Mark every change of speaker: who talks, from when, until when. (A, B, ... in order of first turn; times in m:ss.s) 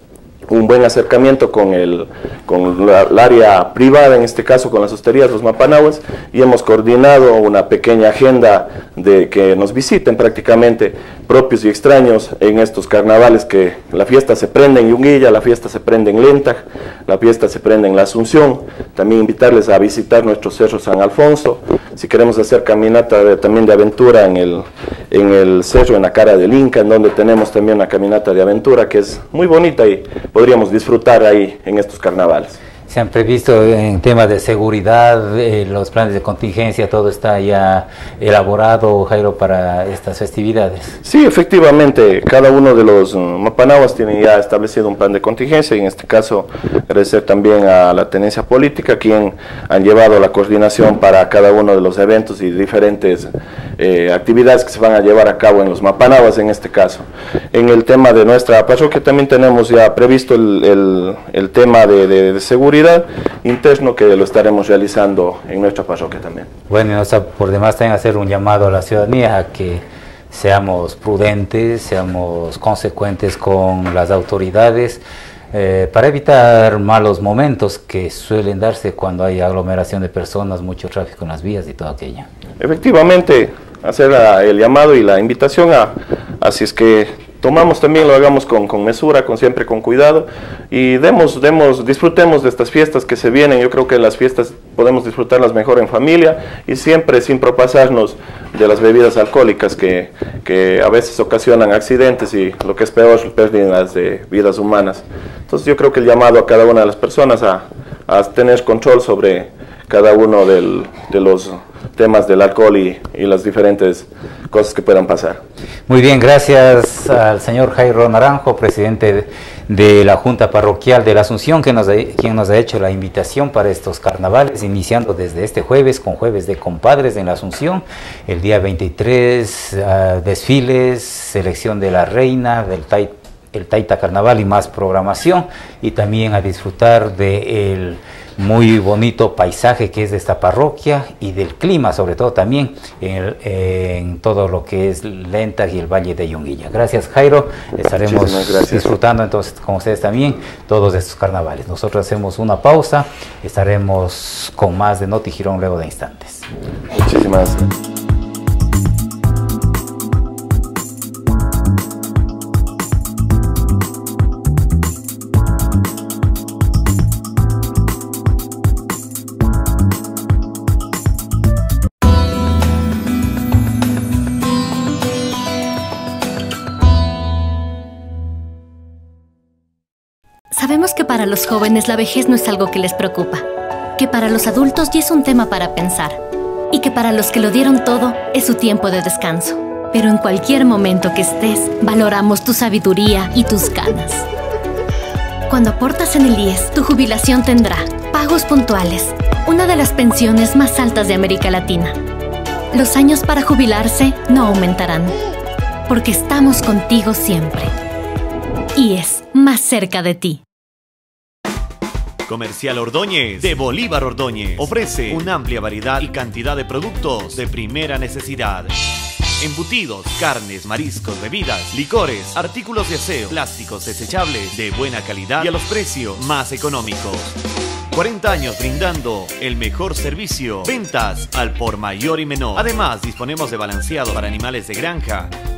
0:00.5-0:32.6 A
0:32.9-0:41.0 B
0:41.0-1:06.5 A
1:06.7-1:15.0 B
1:15.5-1:22.3 B
1:22.6-1:55.4 A
1:55.9-2:36.4 B
2:28.0-2:28.9 A
2:37.0-2:37.6 A
3:00.5-3:03.4 C
3:04.0-3:06.2 C
3:06.7-3:14.2 C
3:15.5-3:22.0 C
3:22.7-3:25.1 C
3:25.9-3:27.7 C
3:28.8-3:30.4 C
3:32.3-3:38.7 D
3:39.4-3:47.3 D
3:47.9-3:55.3 D